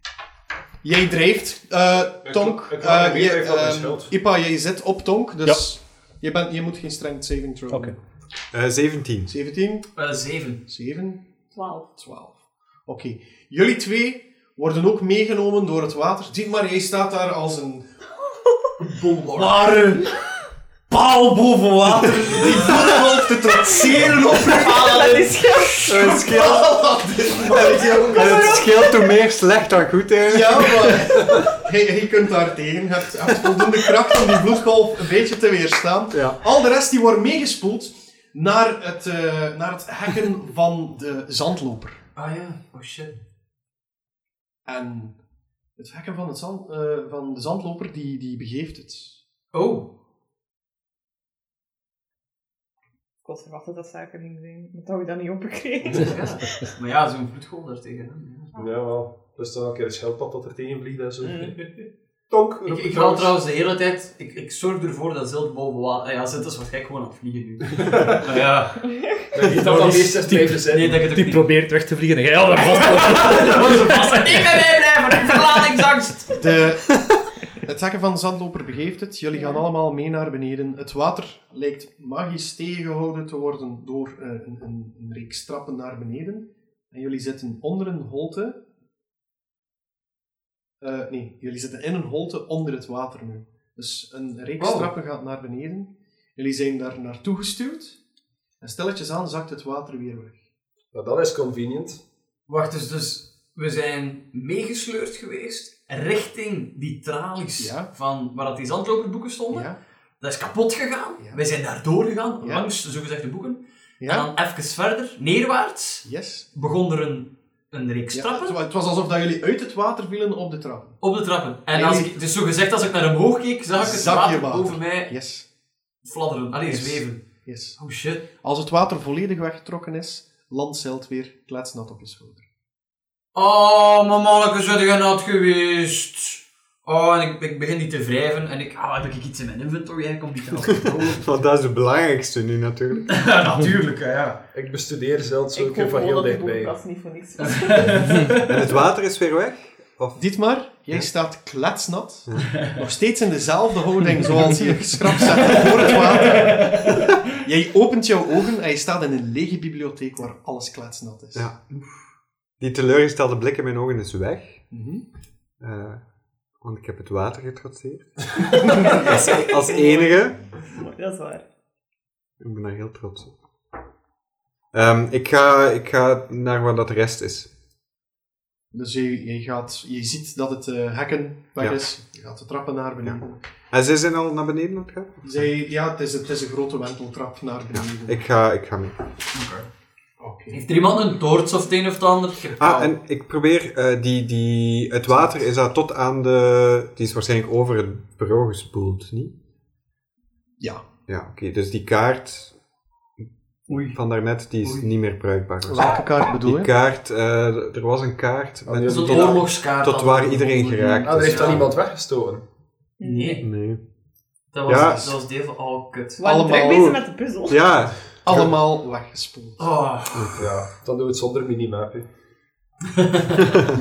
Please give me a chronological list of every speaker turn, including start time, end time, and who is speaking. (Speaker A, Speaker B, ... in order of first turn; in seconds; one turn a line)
Speaker A: 0.8-7.9
Speaker B: 2.2-4.1
Speaker C: 7.7-8.0
Speaker D: 8.5-9.3
Speaker A: 9.3-10.0
Speaker E: 9.9-10.6
Speaker A: 10.7-11.2
Speaker F: 11.5-11.9
Speaker A: 11.9-17.9
Speaker E: 18.8-19.8
Speaker A: 19.4-20.1
Speaker A: 20.9-25.3
Speaker E: 22.2-23.2
Speaker E: 23.9-25.1
Speaker F: 24.8-26.1
Speaker D: 25.9-26.8
Speaker A: 26.0-28.6
Speaker D: 27.5-31.1
Speaker E: 27.8-28.6
Speaker A: 30.2-42.0
Speaker D: 36.1-36.4
Speaker E: 42.1-43.2
Speaker A: 44.6-45.2
Speaker A: 45.8-49.2
Speaker E: 49.5-49.9
Speaker F: 53.2-56.7
Speaker E: 55.9-58.5
Speaker B: 58.5-61.6
Speaker F: 61.2-61.5
Speaker B: 62.3-63.4
Speaker E: 62.6-68.8
Speaker B: 67.8-68.2
Speaker F: 68.9-69.2
Speaker B: 69.3-71.0
Speaker E: 69.6-70.1
Speaker C: 69.7-74.6
Speaker E: 70.6-71.5
Speaker E: 72.8-76.4
Speaker A: 76.3-88.6
Speaker F: 79.3-79.6
Speaker A: 90.8-98.0
Speaker E: 94.6-94.9
Speaker A: 98.6-100.4
Speaker B: 100.9-102.0
Speaker E: 102.5-118.6
Speaker A: 107.6-107.9
Speaker A: 109.5-109.8
Speaker A: 112.4-112.7
Speaker A: 114.0-114.3
Speaker A: 116.0-116.5
Speaker A: 118.1-121.0
Speaker E: 121.0-125.1
Speaker A: 121.7-122.2
Speaker A: 123.8-125.5
Speaker E: 126.0-128.3
Speaker A: 126.7-127.8
Speaker A: 128.3-132.4
Speaker E: 133.3-141.3
Speaker D: 140.7-143.1
Speaker E: 143.1-144.4
Speaker B: 144.5-146.8
Speaker F: 145.5-148.3
Speaker E: 147.4-148.5
Speaker D: 148.4-150.2
Speaker A: 150.2-161.5
Speaker E: 155.5-156.9
Speaker D: 162.6-164.7
Speaker A: 164.7-165.1
Speaker D: 165.6-166.0
Speaker D: 166.6-170.4
Speaker F: 168.7-171.4
Speaker D: 172.4-173.4
Speaker D: 174.7-177.5
Speaker A: 178.7-183.4
Speaker D: 183.0-185.4
Speaker A: 185.2-188.2
Speaker D: 187.7-189.0
Speaker E: 189.3-189.7
Speaker A: 190.2-190.7
Speaker E: 190.5-192.9
Speaker D: 192.6-199.3
Speaker D: 201.1-202.6
Speaker E: 203.7-204.0
Speaker D: 203.7-211.7
Speaker E: 204.6-204.9
Speaker A: 205.7-206.7
Speaker B: 208.7-209.5
Speaker E: 208.9-211.7
Speaker B: 211.0-212.4
Speaker F: 213.0-213.4
Speaker E: 213.0-213.5
Speaker D: 213.4-213.8
Speaker E: 214.5-216.2
Speaker D: 214.7-215.1
Speaker F: 216.2-217.7
Speaker A: 216.2-217.0
Speaker D: 217.5-218.0
Speaker A: 218.2-219.7
Speaker E: 219.6-220.5
Speaker D: 220.1-220.4
Speaker B: 220.4-222.1
Speaker E: 223.0-223.2